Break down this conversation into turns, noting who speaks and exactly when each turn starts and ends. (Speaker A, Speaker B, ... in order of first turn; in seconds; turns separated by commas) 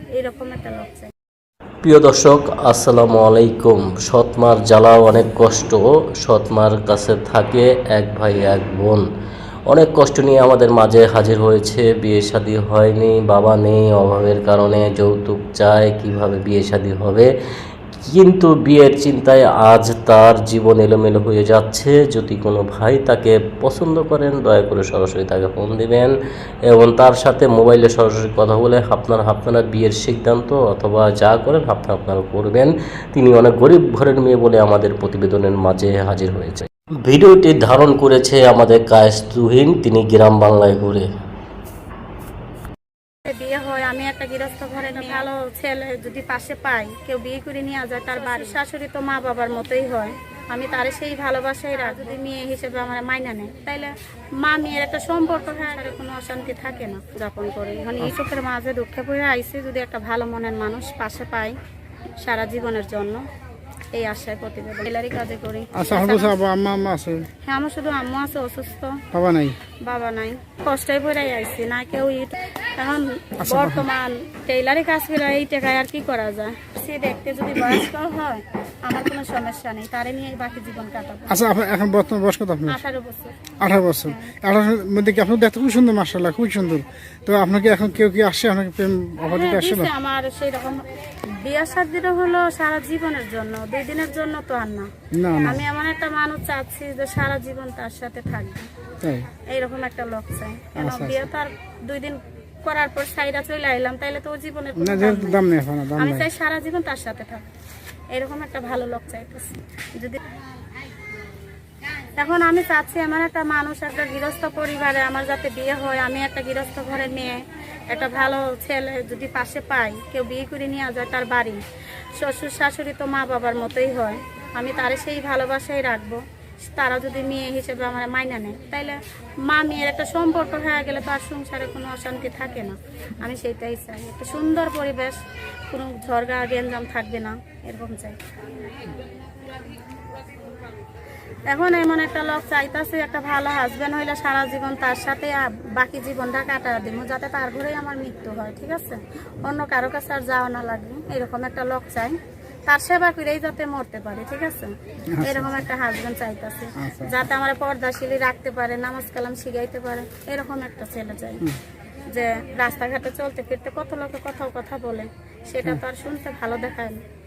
Speaker A: 0.1-1.1, Speaker B: 1.8-9.0, Speaker B: 9.7-17.3, Speaker B: 18.0-26.1, Speaker B: 26.7-41.1, Speaker A: 43.2-61.5, Speaker A: 62.2-63.2, Speaker A: 63.9-66.3, Speaker C: 65.7-67.3, Speaker A: 67.4-69.0, Speaker C: 69.1-69.6, Speaker A: 69.8-81.3, Speaker C: 73.4-73.9, Speaker C: 81.3-82.8, Speaker A: 82.7-83.4, Speaker C: 83.6-89.9, Speaker A: 89.3-90.8, Speaker A: 91.4-94.9, Speaker C: 95.1-95.6, Speaker A: 95.4-98.7, Speaker C: 99.0-99.2, Speaker A: 99.5-105.5, Speaker C: 100.8-101.2, Speaker C: 104.8-106.3, Speaker A: 106.0-107.5, Speaker A: 108.1-110.2, Speaker A: 112.1-121.6, Speaker A: 122.1-135.2, Speaker A: 135.7-138.2, Speaker A: 141.5-161.4, Speaker C: 155.1-155.7, Speaker C: 156.8-157.2, Speaker A: 162.1-167.0